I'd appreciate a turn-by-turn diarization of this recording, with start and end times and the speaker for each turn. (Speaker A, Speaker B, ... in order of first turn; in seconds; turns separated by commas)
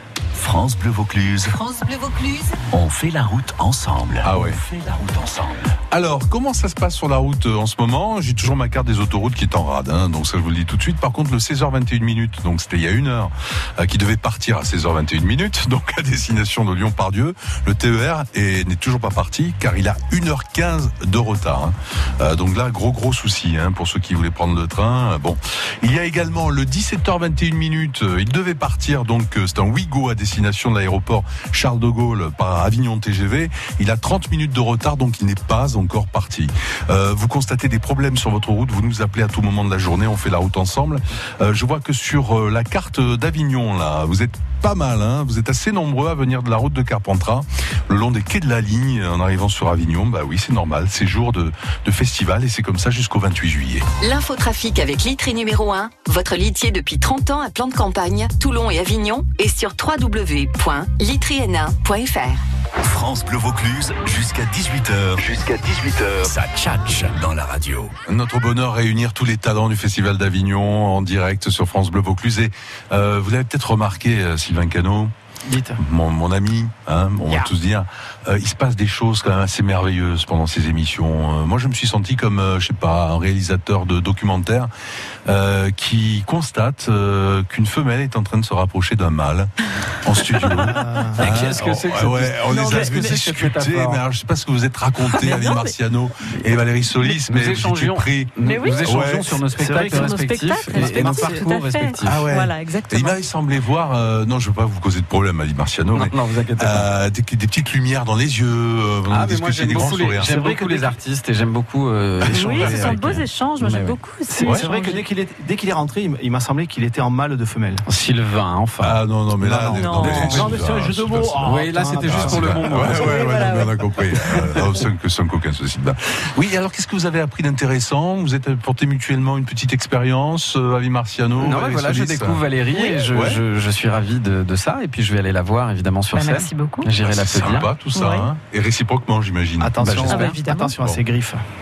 Speaker A: 0.3-1.6, Speaker A: 2.7-5.7, Speaker B: 4.2-4.6, Speaker B: 5.9-53.9, Speaker C: 54.0-62.4, Speaker A: 62.8-67.9, Speaker B: 68.0-75.1, Speaker D: 75.5-75.8, Speaker B: 75.8-84.7, Speaker B: 85.2-99.5, Speaker E: 90.4-90.7, Speaker D: 90.5-91.3, Speaker F: 91.2-94.0, Speaker E: 92.5-93.2, Speaker E: 95.0-95.8, Speaker F: 97.0-102.2, Speaker E: 98.4-98.9, Speaker D: 99.5-101.5, Speaker E: 99.8-103.2, Speaker B: 102.0-110.4, Speaker F: 105.9-106.9, Speaker F: 109.1-114.0, Speaker D: 109.8-110.9, Speaker B: 112.2-113.0, Speaker E: 112.3-115.0, Speaker D: 114.3-117.8, Speaker F: 117.8-120.5, Speaker B: 118.8-132.4, Speaker D: 119.4-123.2, Speaker E: 119.7-120.5, Speaker F: 121.4-123.2, Speaker E: 122.9-123.8, Speaker F: 131.4-137.7, Speaker B: 133.0-133.4, Speaker E: 136.1-136.9, Speaker B: 137.0-141.0, Speaker E: 137.5-138.3, Speaker D: 139.6-141.4, Speaker F: 139.8-140.3, Speaker E: 139.9-140.7